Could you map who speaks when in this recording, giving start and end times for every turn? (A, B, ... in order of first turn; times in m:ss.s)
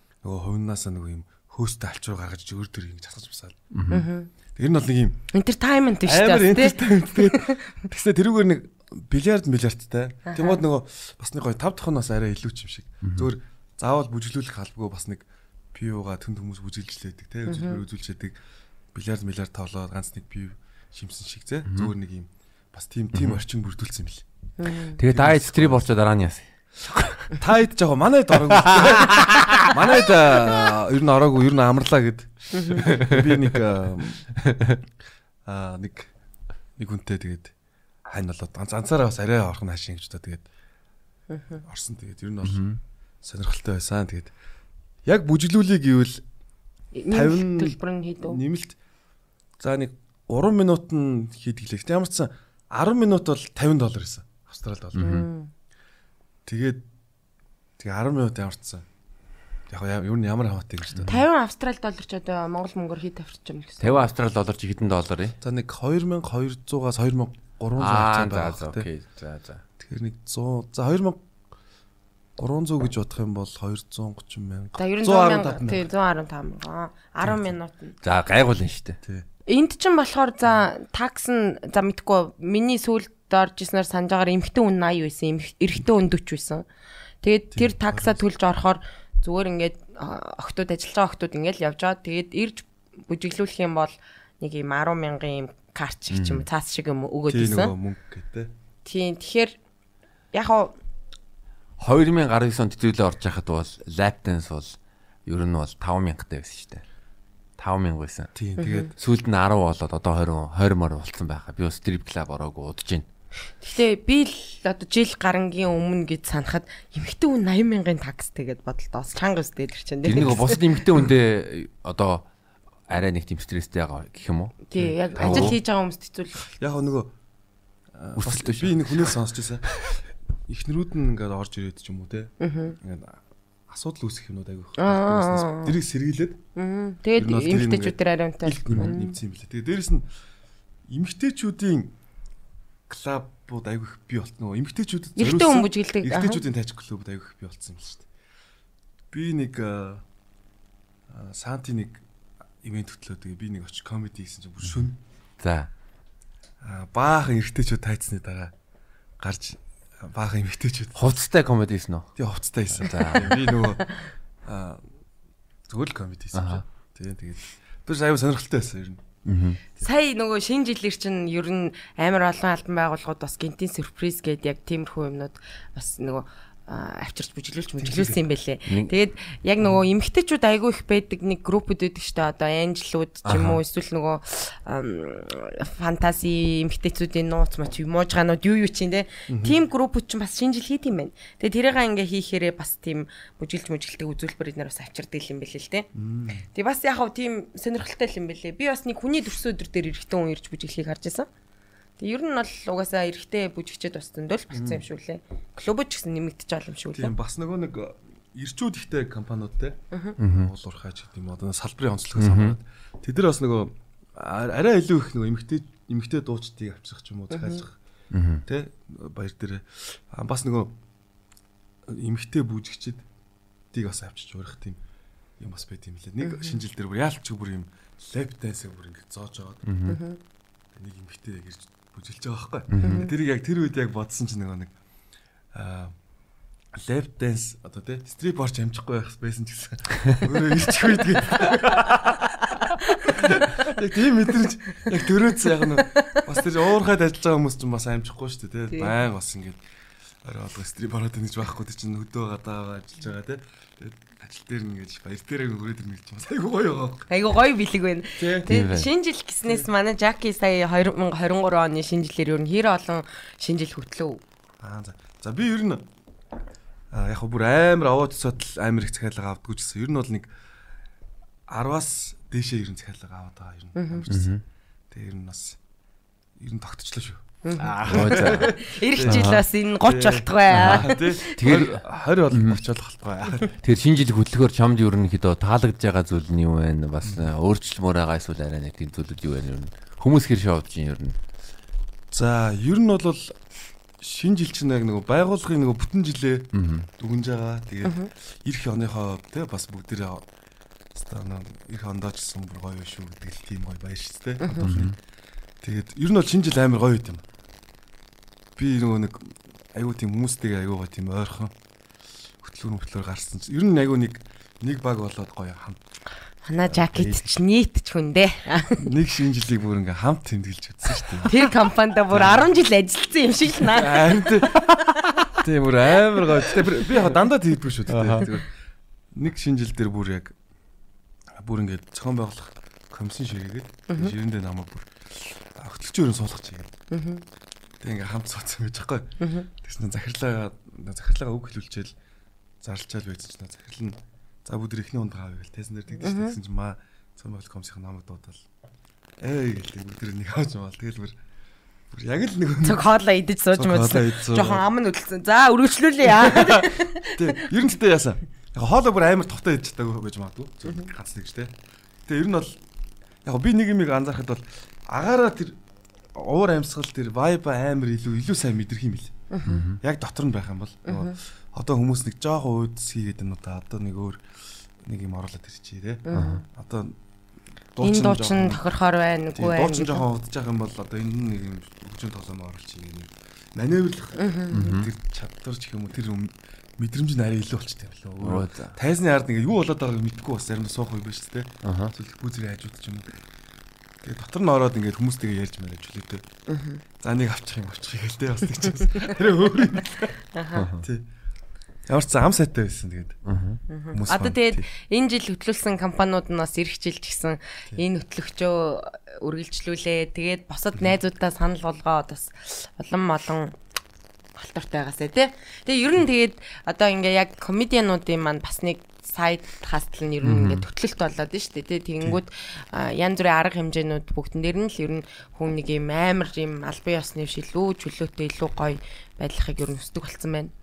0:00.2-0:03.6 A
0:03.7-0:04.1 B
0:03.9-0:04.3 C
0:04.6-0:05.2 A
0:05.3-0:07.8 C
0:06.1-0:18.4 A
0:10.3-0:10.6 C
0:13.0-0:13.3 B
0:17.5-0:17.8 C
0:18.9-0:24.2 A
0:23.1-0:23.4 B
0:24.6-0:25.0 C
0:25.0-0:27.3 B
0:25.0-0:25.9 A
0:27.3-0:34.2 A
0:28.5-0:30.3 B
0:32.5-0:32.9 C
0:32.8-0:33.3 B
0:34.4-0:34.8 B
0:35.5-0:36.1 A
0:36.8-0:37.5 A
0:38.1-0:40.4 A
0:41.3-0:41.6 C
0:41.6-0:42.7 A
0:42.4-0:42.8 B
0:43.2-0:44.3 A
0:45.1-0:46.2 A
0:46.9-0:48.4 C
0:47.1-0:48.8 A
0:49.6-0:55.2 A
0:54.9-0:55.3 B
0:55.0-0:55.5 C
0:56.5-0:56.8 A
0:57.8-0:58.8 A
0:59.7-1:01.2 A
1:01.1-1:04.1 C
1:03.8-1:05.4 B
1:05.4-1:08.9 A
1:07.8-1:09.6 B
1:09.8-1:11.2 A
1:12.4-1:15.9 A
1:14.8-1:17.9 C
1:18.0-1:19.0 B
1:19.0-1:19.3 A
1:19.5-1:26.7 C
1:27.2-1:37.8 C
1:27.5-1:28.2 A
1:36.1-1:36.5 B
1:37.3-1:38.5 A
1:38.8-1:39.6 C
1:40.3-1:40.8 C
1:41.8-1:46.8 B
1:47.6-1:48.3 B
1:48.4-1:48.9 A
1:48.6-1:48.9 C
1:49.0-1:53.1 B
1:53.6-2:00.8 C
2:00.0-2:02.3 B
2:02.9-2:05.6 B
2:04.7-2:06.5 C
2:04.8-2:05.6 A
2:06.6-2:07.1 A
2:07.9-2:09.7 A
2:08.2-2:09.2 B
2:10.5-2:16.4 A
2:12.4-2:12.8 C
2:14.8-2:15.8 C
2:16.6-2:19.2 C
2:17.2-2:20.1 A
2:20.9-2:21.9 A
2:22.9-2:28.1 A
2:25.2-2:26.4 C
2:29.1-2:30.0 A
2:31.1-2:32.0 A
2:32.6-2:35.0 A
2:35.4-2:35.7 B
2:36.6-2:38.5 A
2:39.2-2:41.1 A
2:41.0-2:42.1 B
2:42.2-2:43.8 A
2:42.8-2:43.5 B
2:44.4-2:44.9 A
2:45.7-2:49.0 A
2:46.3-2:46.6 B
2:49.2-2:49.6 B
2:49.8-3:15.9 C
2:57.8-2:58.2 A
2:58.7-2:58.9 B
3:03.2-3:03.6 B
3:09.3-3:09.6 A
3:15.9-3:16.4 A
3:16.4-3:21.3 C
3:22.0-3:27.1 C
3:24.5-3:24.8 A
3:26.9-3:37.8 A
3:29.9-3:30.2 C
3:30.2-3:30.5 B
3:32.2-3:32.6 B
3:37.3-3:37.6 C
3:38.1-3:38.4 B
3:38.4-3:40.7 A
3:41.9-3:43.0 A
3:43.7-3:44.8 A
3:45.4-3:49.6 A
3:46.2-3:46.6 C
3:49.7-3:50.0 B
3:49.9-3:50.2 C
3:50.7-3:54.7 A
3:52.7-3:53.1 B
3:52.8-3:53.1 C
3:55.5-3:56.0 A
3:56.7-4:02.5 A
4:02.8-4:03.3 C
4:03.1-4:09.6 A
4:05.6-4:06.2 C
4:10.2-4:17.1 A
4:17.1-4:24.2 C
4:18.2-4:18.5 A
4:18.5-4:18.9 B
4:19.4-4:19.7 A
4:24.6-4:25.8 A
4:26.9-4:30.3 A
4:31.5-4:34.3 A
4:33.8-4:34.1 C
4:34.1-4:34.4 B
4:34.9-4:35.6 A
4:36.4-4:37.2 A
4:37.4-4:41.4 C
4:37.6-4:39.4 B
4:37.8-4:43.5 A
4:40.5-4:42.6 B
4:43.6-4:51.2 B
4:47.0-4:47.3 A
4:52.1-4:53.4 A
4:54.0-5:00.2 A
4:56.5-4:56.9 B
4:57.8-4:58.1 C
5:00.9-5:05.0 A
5:04.4-5:04.7 C
5:04.6-5:05.0 B
5:05.6-5:07.2 A
5:08.6-5:11.5 A
5:12.4-5:15.8 A
5:16.4-5:18.9 C
5:16.7-5:17.2 A
5:18.8-5:21.4 A
5:21.2-5:25.2 C
5:23.6-5:24.7 A
5:25.3-5:28.5 A
5:27.9-5:28.3 B
5:29.1-5:30.4 A
5:31.3-5:36.7 A
5:33.9-5:34.1 C
5:36.9-5:37.2 C
5:37.8-5:42.0 A
5:39.2-5:39.5 C
5:42.6-5:48.4 A
5:46.0-5:46.4 C
5:49.2-5:51.2 A
5:51.9-5:52.9 A
5:52.6-5:57.4 C
5:53.5-5:54.6 A
5:56.0-6:01.5 A
6:02.1-6:02.6 A
6:03.2-6:05.6 A
6:06.1-6:09.1 A
6:09.3-6:09.6 C
6:09.5-6:09.8 B
6:09.8-6:17.0 A
6:10.9-6:11.2 C
6:16.1-6:16.5 C
6:16.1-6:16.4 B
6:17.8-6:18.6 A
6:17.8-6:20.0 C
6:19.3-6:33.2 A
6:24.2-6:24.7 C
6:24.5-6:24.9 B
6:28.2-6:28.8 B
6:31.6-6:31.9 B
6:34.0-6:36.2 A
6:36.5-6:36.8 C
6:37.0-6:40.2 A
6:40.3-6:40.7 C
6:40.5-6:40.8 B
6:40.8-6:41.1 A
6:41.9-6:43.2 A
6:43.2-6:43.6 B
6:43.7-6:53.6 C
6:43.9-6:44.7 A
6:54.4-7:10.5 C
7:00.2-7:00.6 B